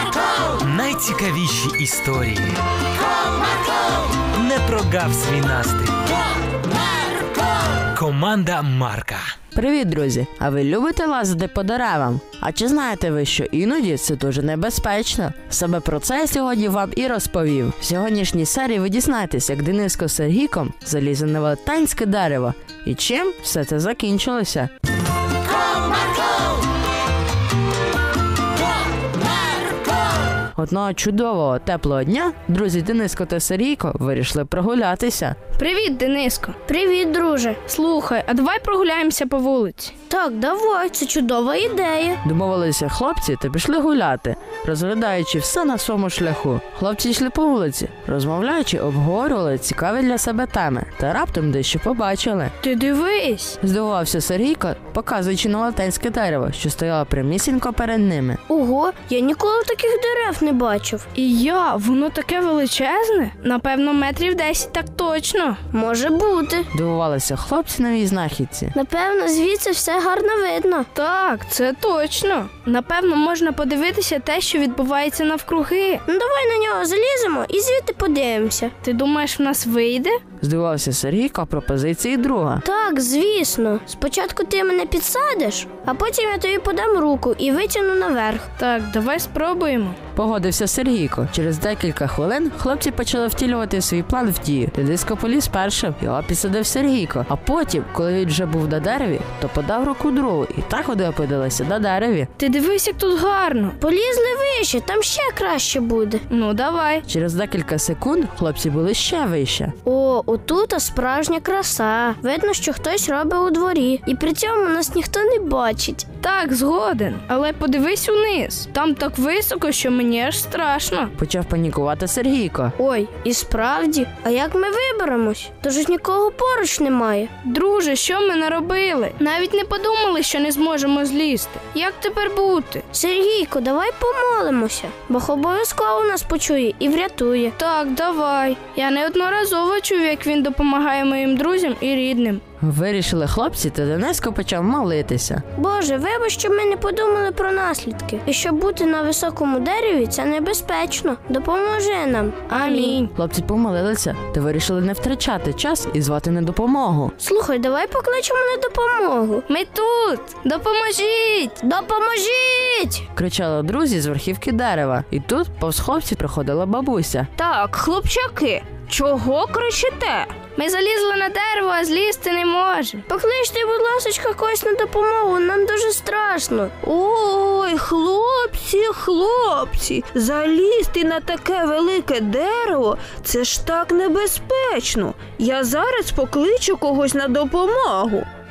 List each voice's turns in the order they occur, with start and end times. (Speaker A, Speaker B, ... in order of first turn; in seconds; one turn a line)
Speaker A: 0.6-2.5
Speaker A: 4.3-6.1
Speaker A: 7.9-9.3
Speaker B: 9.5-24.7
Speaker B: 30.5-35.4
Speaker C: 35.5-36.6
Speaker D: 36.7-37.6
Speaker C: 37.6-39.9
Speaker D: 40.1-42.2
Speaker B: 42.2-52.5
Speaker C: 52.6-53.6
Speaker B: 53.6-58.4
Speaker D: 58.5-61.0
Speaker C: 61.1-65.6
Speaker D: 65.7-66.7
Speaker B: 66.7-68.7
Speaker D: 68.7-70.9
Speaker C: 70.9-76.0
Speaker D: 76.1-78.7
Speaker C: 78.8-80.2
Speaker B: 80.4-82.6
Speaker D: 82.6-88.5
Speaker C: 88.6-90.0
Speaker B: 90.1-102.3
Speaker C: 102.4-103.8
Speaker D: 103.8-106.2
Speaker C: 106.3-107.0
Speaker B: 107.1-109.7
Speaker D: 109.8-116.0
Speaker C: 116.2-121.1
Speaker B: 121.2-122.7
Speaker C: 122.8-123.1
Speaker D: 123.1-127.3
Speaker C: 127.4-132.8
Speaker D: 132.9-137.5
Speaker C: 137.6-142.4
Speaker B: 142.6-145.4
Speaker D: 145.6-153.0
Speaker C: 152.5-153.1
Speaker B: 153.1-157.1
Speaker D: 157.2-159.4
Speaker C: 159.5-161.6
Speaker D: 161.6-163.0
Speaker B: 163.1-167.3
Speaker E: 167.4-170.3
Speaker C: 170.5-173.0
Speaker D: 173.1-176.7
Speaker E: 176.8-188.3